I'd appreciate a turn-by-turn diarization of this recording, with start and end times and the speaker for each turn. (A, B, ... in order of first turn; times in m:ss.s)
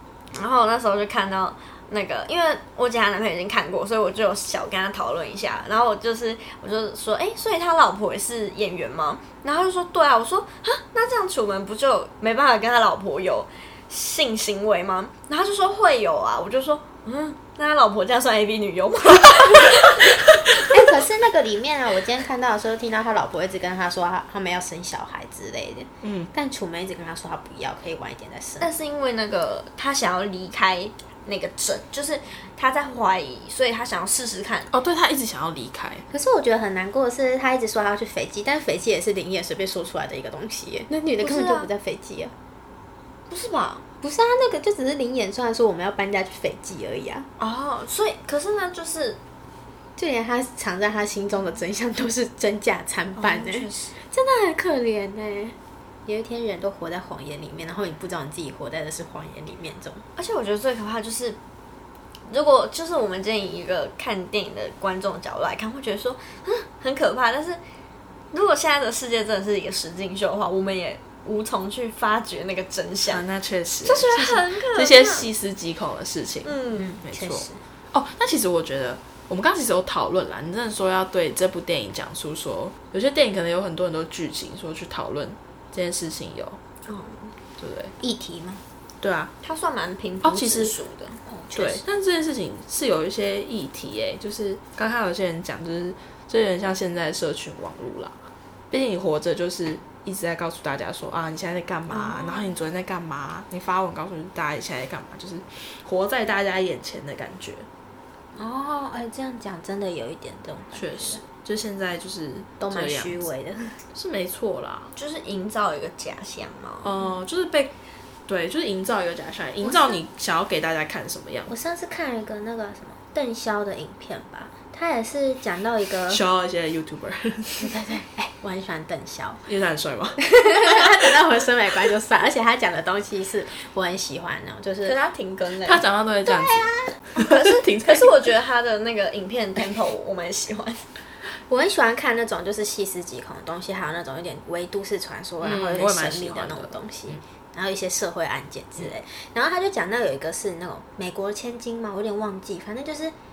0:00.3-0:20.6 A
0:20.6-0:28.7 B
0:26.0-0:26.3 C
0:28.6-0:34.7 A
0:34.7-0:36.0 C
0:36.1-0:42.3 B
0:41.2-0:41.7 A
0:43.3-0:43.8 A
0:44.0-0:47.3 B
0:47.4-0:49.2 A
0:50.0-1:00.0 B
0:53.2-0:54.0 A
1:00.2-1:01.4 A
1:02.3-1:07.6 A
1:08.3-1:13.2 A
1:13.1-1:26.6 C
1:13.8-1:15.3 A
1:16.4-1:17.0 A
1:16.8-1:17.6 B
1:26.9-1:27.3 A
1:27.6-1:27.9 C
1:28.0-1:28.6 B
1:29.0-1:29.3 C
1:29.4-1:31.2 A
1:30.2-1:30.8 C
1:31.3-1:31.8 B
1:31.6-1:38.2 C
1:38.7-1:47.7 C
1:41.9-1:42.4 B
1:48.4-1:51.2 B
1:50.7-1:53.2 C
1:52.6-1:53.8 B
1:53.9-1:54.9 C
1:55.0-1:56.9 A
1:56.8-1:57.7 C
1:58.3-2:01.5 C
1:59.6-2:00.0 B
2:01.5-2:06.2 B
2:06.1-2:07.8 C
2:07.6-2:09.4 B
2:09.5-2:10.3 C
2:10.3-2:15.0 B
2:14.8-2:15.8 A
2:15.7-2:18.3 C
2:16.3-2:16.7 B
2:17.1-2:20.8 A
2:21.5-2:33.2 B
2:25.4-2:27.2 C